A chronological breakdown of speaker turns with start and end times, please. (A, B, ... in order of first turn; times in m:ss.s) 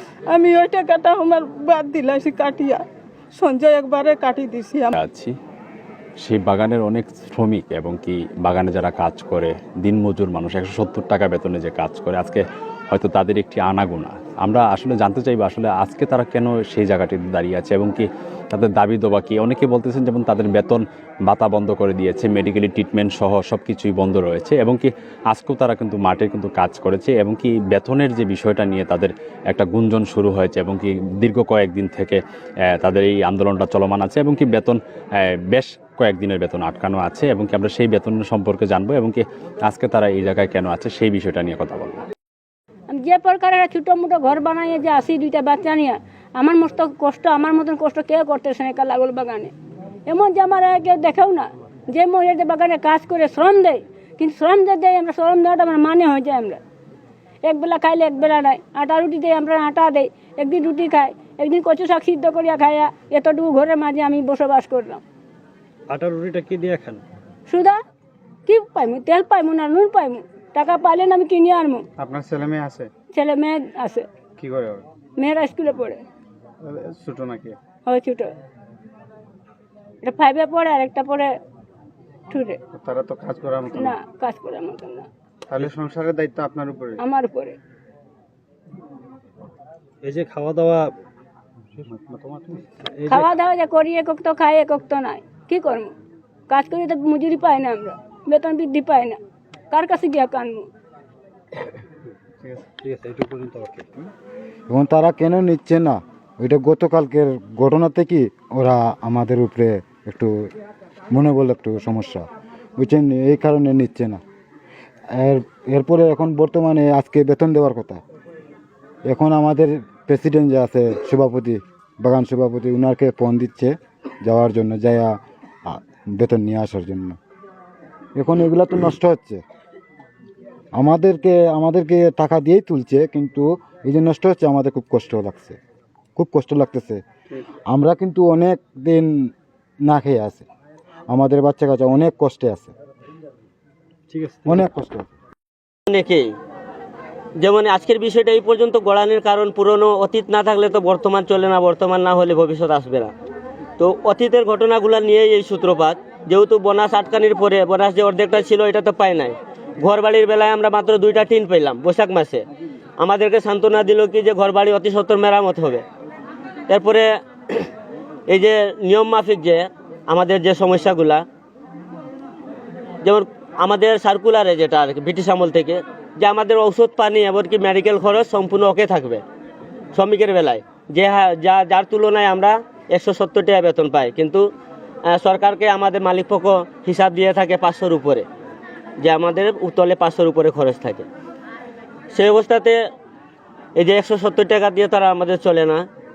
0:00.3-0:02.8 A
0:03.3-0:04.9 A
0:04.9-0:05.3 B
0:06.2-0:42.0 B
0:42.9-0:49.5 C
0:50.1-0:56.6 C
0:57.4-1:05.0 C
1:05.9-1:07.0 D
1:07.5-1:07.8 C
1:08.5-1:11.8 C
1:12.0-1:12.9 E
1:13.1-1:14.0 C
1:14.4-1:14.8 E
1:15.2-1:16.0 C
1:16.6-1:17.6 E
1:17.8-1:18.3 C
1:20.0-1:21.3 C
1:22.3-1:22.6 C
1:22.7-1:24.0 E
1:23.7-1:25.0 C
1:25.5-1:27.0 E
1:27.0-1:27.6 C
1:30.0-1:30.9 D
1:31.9-1:32.6 E
1:32.9-1:33.3 D
1:33.1-1:35.9 C
1:36.5-1:39.2 C
1:39.7-1:40.7 C
1:42.8-1:43.8 D
1:44.7-1:50.5 F
1:51.1-1:52.2 F
1:52.8-1:54.2 F
1:55.2-1:58.0 F
1:59.1-2:07.2 F
2:08.2-2:09.4 F
2:10.8-2:15.6 F
2:16.2-2:17.0 F
2:17.7-2:19.3 F
2:19.8-2:20.4 F
2:21.1-2:22.7 F
2:24.1-2:24.6 D
2:24.4-2:25.1 F
2:25.9-2:26.4 D
2:27.4-2:33.1 D
2:33.8-2:42.4 D
2:43.0-2:45.8 D
2:46.7-2:47.7 D
2:48.3-2:51.2 D
2:53.0-2:59.2 D
2:59.9-3:04.4 D
3:05.1-3:08.3 D
3:09.0-3:11.1 D
3:12.1-3:12.8 D
3:13.8-3:15.8 D